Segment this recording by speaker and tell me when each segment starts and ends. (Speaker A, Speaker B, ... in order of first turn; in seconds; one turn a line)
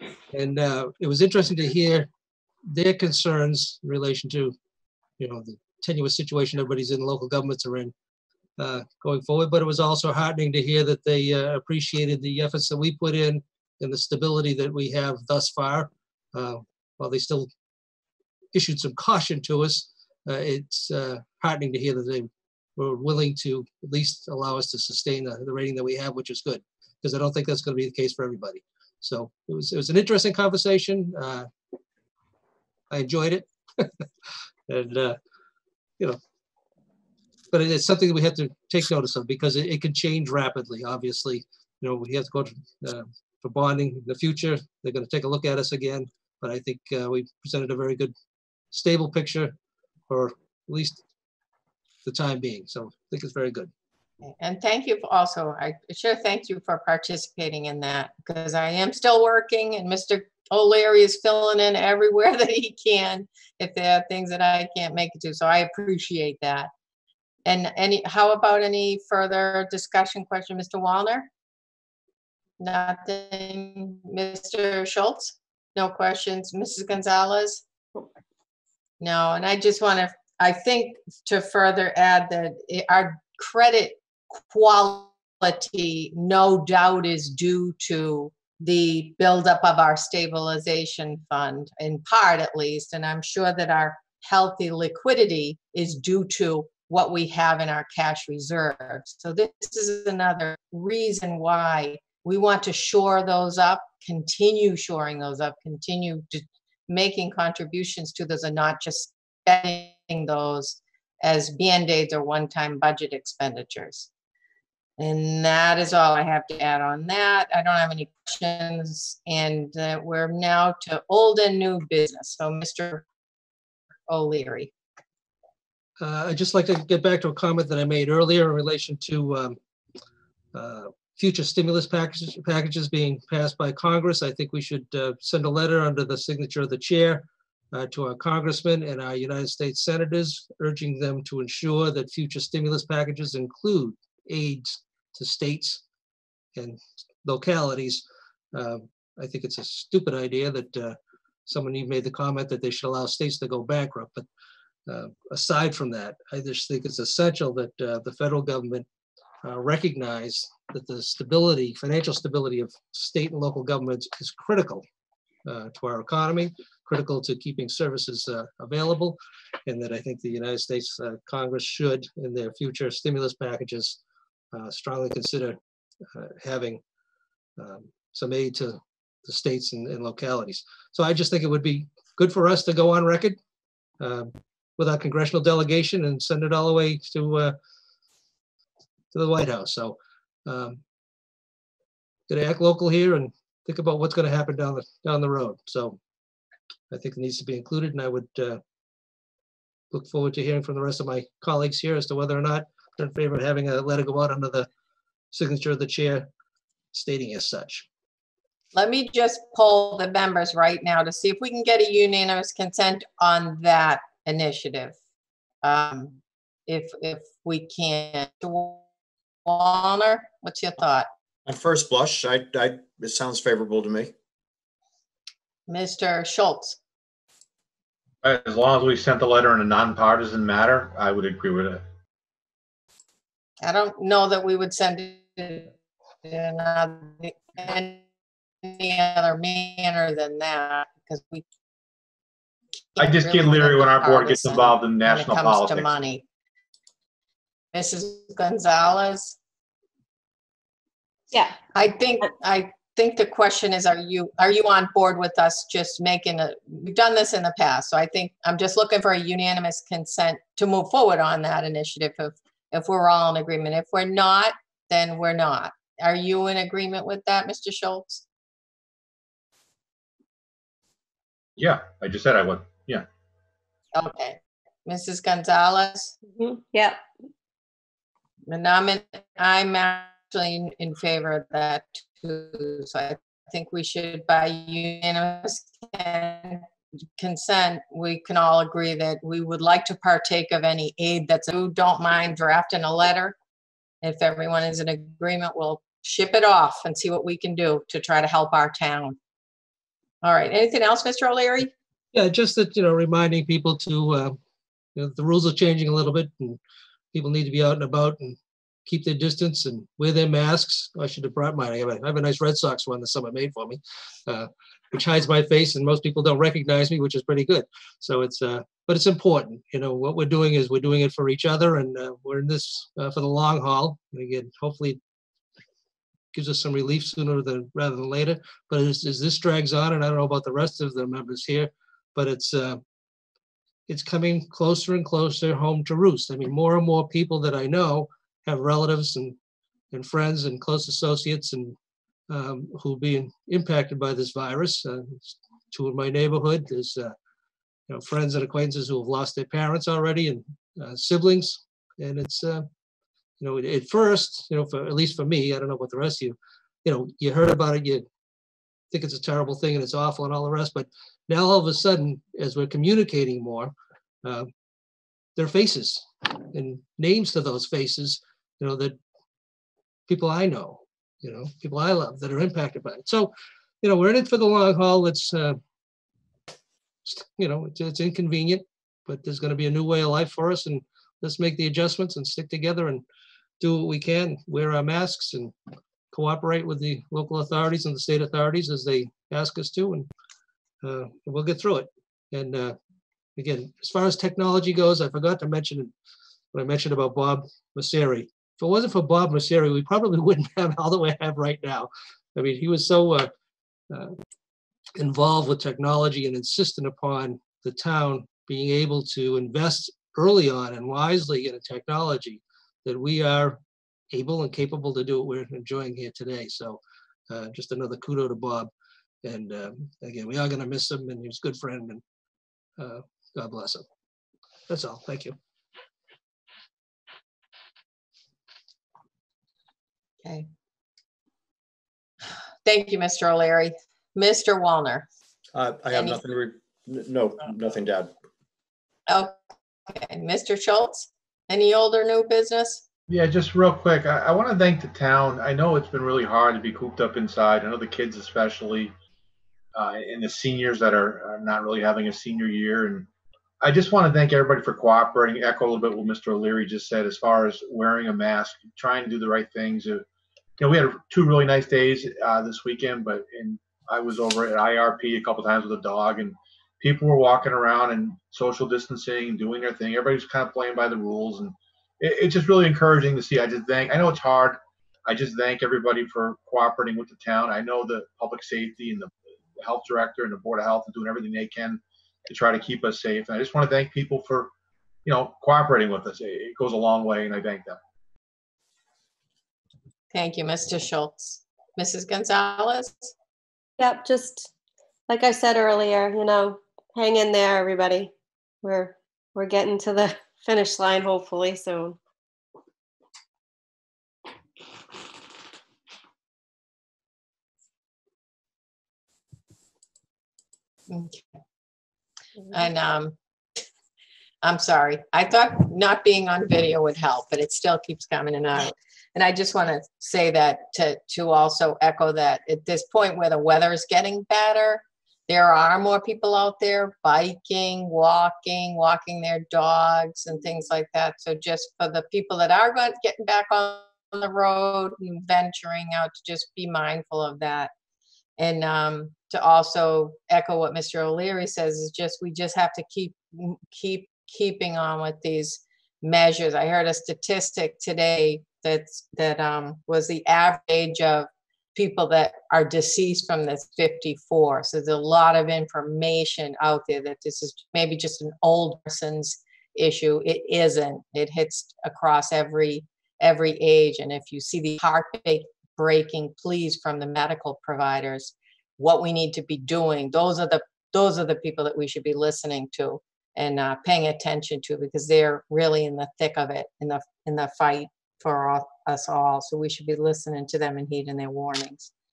Speaker A: 0.3-2.1
Speaker A: 2.7-4.5
Speaker A: 5.2-7.9
Speaker A: 8.6-17.5
Speaker A: 18.5-31.5
Speaker A: 32.9-34.0
Speaker A: 34.7-35.2
Speaker A: 37.5-48.1
Speaker A: 48.7-49.5
Speaker A: 50.1-51.0
Speaker A: 52.0-53.7
Speaker B: 54.2-66.7
Speaker B: 67.4-71.3
Speaker B: 72.6-77.6
Speaker B: 79.0-114.1
Speaker B: 115.0-123.0
Speaker B: 124.1-124.7
Speaker A: 126.0-129.6
Speaker A: 130.5-145.8
Speaker A: 146.6-148.0
Speaker A: 148.5-150.9
Speaker A: 151.5-154.2
Speaker A: 154.9-158.8
Speaker A: 159.4-164.8
Speaker A: 165.4-174.0
Speaker A: 174.5-175.6
Speaker A: 176.1-176.8
Speaker A: 177.6-183.4
Speaker A: 184.0-187.6
Speaker A: 189.1-190.8
Speaker A: 192.3-196.0
Speaker A: 196.9-198.6
Speaker A: 199.9-204.7
Speaker A: 205.3-206.3
Speaker A: 206.9-207.8
Speaker B: 208.7-214.9
Speaker B: 215.6-218.8
Speaker B: 219.4-221.1
Speaker C: 221.4-224.1
Speaker B: 225.7-226.8
Speaker D: 228.2-231.8
Speaker B: 233.6-235.7
Speaker B: 236.2-238.0
Speaker B: 238.6-241.4
Speaker B: 242.9-246.2
Speaker D: 243.0-245.9
Speaker B: 247.7-249.4
Speaker B: 251.7-268.2
Speaker D: 271.6-273.1
Speaker B: 273.9-276.1
Speaker E: 276.3-277.0
Speaker B: 278.5-286.7
Speaker B: 287.2-293.4
Speaker B: 294.0-299.2
Speaker B: 300.2-301.7
Speaker A: 302.1-304.4
Speaker A: 304.9-306.6
Speaker A: 307.1-325.0
Speaker A: 326.3-332.8
Speaker A: 333.9-339.4
Speaker A: 339.9-341.8
Speaker A: 342.3-347.1
Speaker A: 347.9-352.6
Speaker A: 353.4-358.0
Speaker A: 358.9-363.7
Speaker A: 364.2-364.5
Speaker A: 365.4-369.0
Speaker A: 370.1-375.6
Speaker A: 377.1-383.0
Speaker A: 383.6-385.5
Speaker A: 386.1-390.1
Speaker A: 390.8-392.7
Speaker A: 393.4-395.9
Speaker A: 396.5-403.3
Speaker A: 403.9-404.1
Speaker A: 404.9-413.6
Speaker A: 414.1-418.7
Speaker A: 419.2-422.0
Speaker A: 422.8-423.8
Speaker A: 424.7-425.4
Speaker B: 432.6-435.1
Speaker C: 435.5-438.1
Speaker B: 435.9-436.2
Speaker B: 439.1-442.8
Speaker D: 443.1-448.9
Speaker D: 449.7-453.1
Speaker D: 453.6-460.0
Speaker D: 460.6-484.5
Speaker D: 485.0-487.8
Speaker B: 490.1-493.1
Speaker E: 493.8-494.5
Speaker E: 495.1-498.1
Speaker E: 498.6-502.0
Speaker B: 510.9-511.3
Speaker B: 512.5-513.1
Speaker B: 514.4-537.7
Speaker B: 538.4-581.9